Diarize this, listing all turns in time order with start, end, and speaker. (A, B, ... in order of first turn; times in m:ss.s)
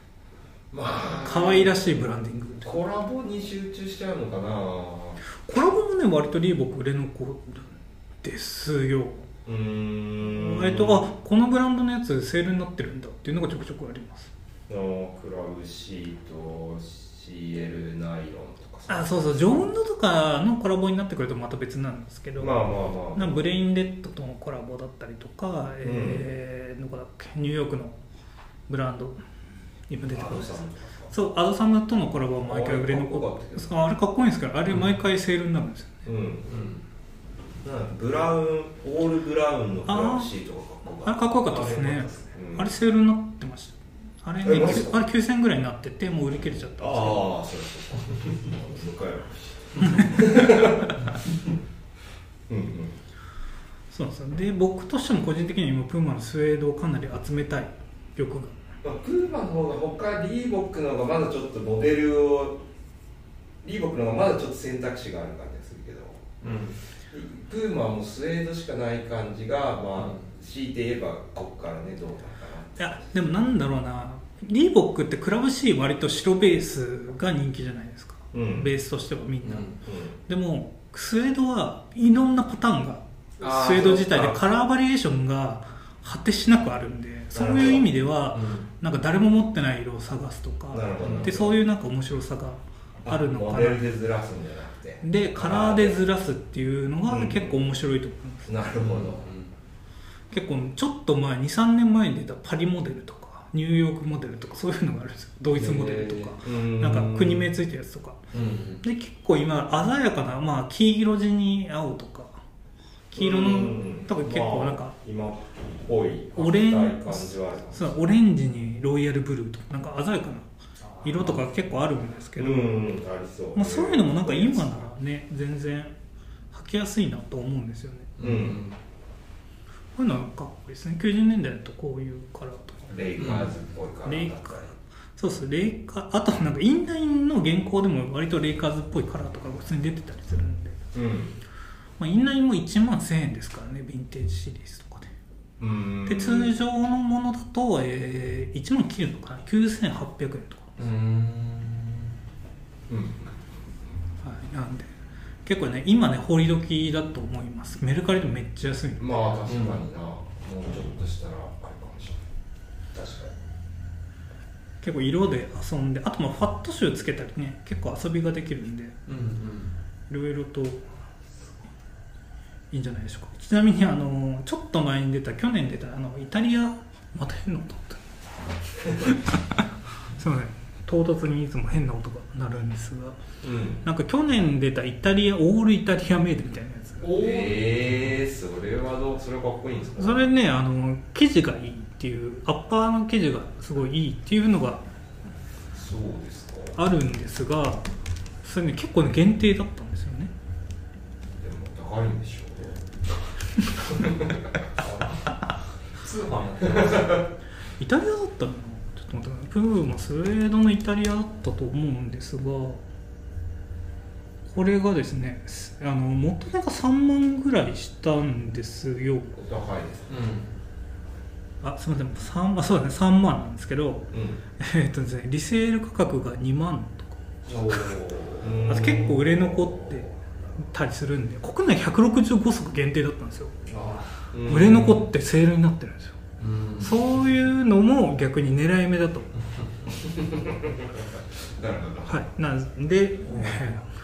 0:00.7-0:01.8 A
0:01.1-0:02.8 B
0:02.6-0:05.2 A
0:05.4-0:09.2 B
0:09.4-0:11.0 A
0:10.2-0:14.3 B
0:14.7-0:19.7 A
0:18.9-0:28.0 B
0:22.4-0:23.5 A
0:25.8-0:26.3 A
0:28.7-0:29.2 B
0:29.9-0:36.1 B
0:30.0-0:31.1 A
0:32.4-0:33.7 A
0:36.0-0:36.5 A
0:36.5-0:36.8 C
0:37.6-0:41.7 A
0:39.8-0:40.3 B
0:41.0-0:47.3 B
0:41.4-0:42.3 C
0:42.3-0:42.7 A
0:44.4-0:45.0 A
0:46.8-0:51.0 A
0:49.8-0:50.2 B
0:52.5-0:53.0 A
0:53.9-0:58.6 B
0:58.8-1:02.6 A
1:03.6-1:06.2 A
1:06.4-1:06.8 C
1:07.1-1:12.9 A
1:10.0-1:10.2 C
1:12.8-1:33.9 B
1:18.3-1:18.7 A
1:19.4-1:19.8 C
1:19.8-1:20.2 A
1:23.4-1:24.4 A
1:27.3-1:27.9 A
1:28.3-1:28.7 C
1:30.7-1:31.6 A
1:31.0-1:31.4 C
1:33.0-1:36.0 A
1:35.0-1:38.7 B
1:37.0-1:37.6 A
1:38.5-1:39.3 A
1:38.8-1:39.5 C
1:40.3-1:48.2 B
1:45.5-1:46.3 C
1:46.4-1:47.5 A
1:48.3-1:48.8 C
1:48.8-1:52.4 B
1:53.1-1:55.0 B
1:53.1-1:58.0 A
1:56.3-2:00.5 B
2:00.8-2:01.4 C
2:01.0-2:02.9 B
2:02.4-2:04.9 A
2:03.5-2:05.9 B
2:06.5-2:08.1 B
2:08.2-2:08.8 C
2:08.2-2:08.7 A
2:10.0-2:13.0 B
2:12.9-2:14.7 A
2:13.2-2:13.5 C
2:14.0-2:20.8 B
2:20.9-2:21.4 A
2:22.0-2:25.1 B
2:25.6-2:26.5 A
2:26.0-2:30.8 B
2:30.8-2:32.1 C
2:32.9-2:33.4 A
2:34.2-2:34.9 B
2:35.4-2:39.4 B
2:39.0-2:42.2 A
2:39.5-2:39.8 C
2:42.9-2:43.3 A
2:44.8-2:49.0 B
2:49.0-2:49.7 C
2:50.1-2:50.8 B
2:52.7-2:58.0 B
2:58.9-2:59.6 B
3:00.2-3:03.2 B
3:03.4-3:03.8 A
3:03.8-3:07.2 B
3:07.0-3:10.3 A
3:07.1-3:07.6 C
3:10.0-3:14.8 B
3:15.7-3:16.8 A
3:16.7-3:17.8 B
3:18.4-3:20.3 B
3:21.4-3:22.8 A
3:23.9-3:24.4 A
3:24.8-3:27.2 C
3:27.6-3:32.8 B
3:34.5-3:39.4 B
3:39.4-3:40.1 A
3:40.1-3:40.5 C
3:41.6-3:47.9 B
3:44.1-3:44.4 A
3:47.4-3:48.7 C
3:48.4-3:50.0 A
3:48.6-3:53.6 B
3:53.6-3:55.0 C
3:54.3-3:54.9 A
3:54.4-3:56.2 B
3:56.4-3:57.0 C
3:56.8-3:59.3 B
4:00.0-4:00.4 A
4:01.5-4:02.3 A
4:02.1-4:03.9 B
4:03.2-4:03.8 C